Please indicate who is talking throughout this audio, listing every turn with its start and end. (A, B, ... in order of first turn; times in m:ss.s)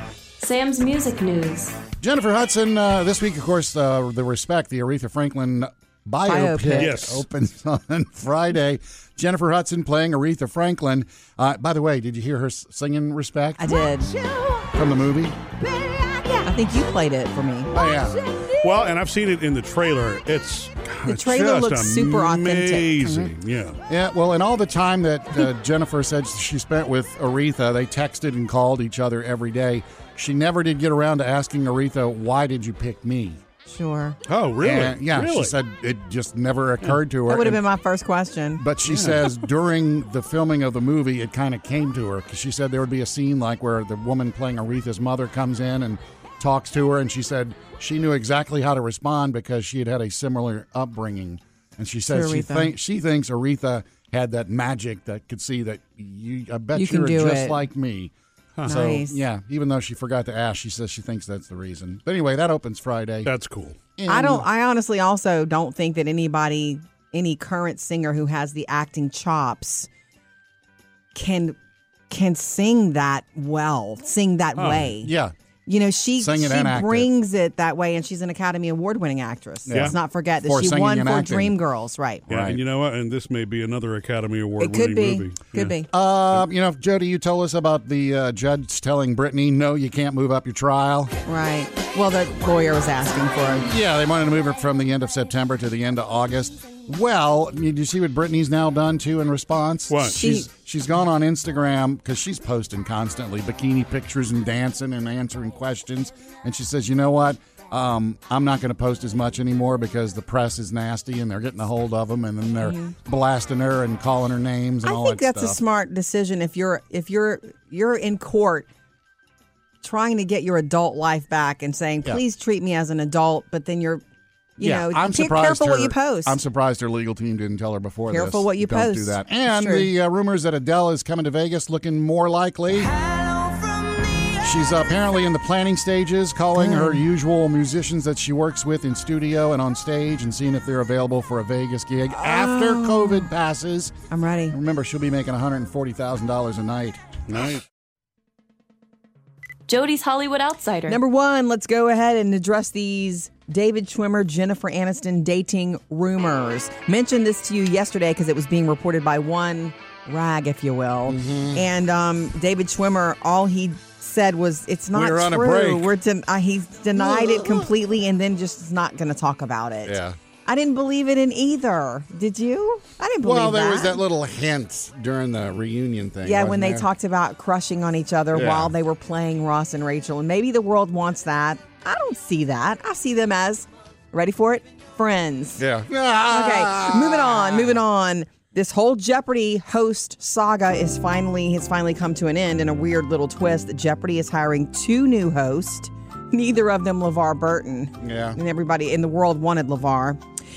0:00.4-0:01.8 A
0:02.0-0:13.8 B
0:06.2-0:07.0 C
0:06.8-0:07.2 D
0:13.6-0:14.4 C
0:14.7-0:15.4 B
0:16.4-0:17.8 C
0:17.7-0:18.2 B
0:18.6-0:23.8 D
0:21.0-0:23.1 C
0:23.0-0:23.3 B
0:23.9-0:33.4 B
0:33.7-0:34.2 C
0:34.2-0:35.6 D
0:34.6-0:37.6 B
0:37.3-0:38.6 C
0:38.6-0:58.1 B
0:38.9-0:39.3 D
0:52.1-0:52.7 C
0:56.8-0:57.6 C
0:58.7-0:59.2 C
0:58.7-1:03.3 B
1:03.2-1:03.8 D
1:04.0-1:04.5 B
1:04.1-1:09.9 C
1:11.1-1:11.6 C
1:12.1-1:15.1 C
1:14.6-1:14.9 D
1:15.0-1:15.3 B
1:15.7-1:22.3 C
1:16.2-1:17.1 B
1:19.7-1:21.5 B
1:22.3-1:25.8 D
1:22.3-1:22.6 B
1:24.6-1:25.9 C
1:25.9-1:31.1 B
1:31.2-1:33.7 C
1:33.6-1:55.6 B
1:39.9-1:40.2 D
1:40.2-1:40.5 C
1:52.6-1:53.0 C
1:54.8-1:58.7 C
1:59.8-2:04.0 C
2:04.6-2:06.4 C
2:04.6-2:13.0 B
2:08.1-2:09.9 C
2:14.4-2:24.0 B
2:16.6-2:17.0 C
2:22.1-2:23.3 C
2:24.1-2:24.6 C
2:24.5-2:27.0 B
2:27.3-2:27.6 D
2:29.7-2:31.0 A
2:30.9-2:54.0 C
2:41.1-2:41.6 B
2:44.9-2:45.9 B
2:47.0-2:47.7 B
2:49.8-2:50.2 B
2:53.2-2:56.9 B
2:56.2-3:05.6 C
2:58.3-2:58.7 B
3:05.6-3:07.8 B
3:06.3-3:20.2 C
3:18.0-3:18.4 B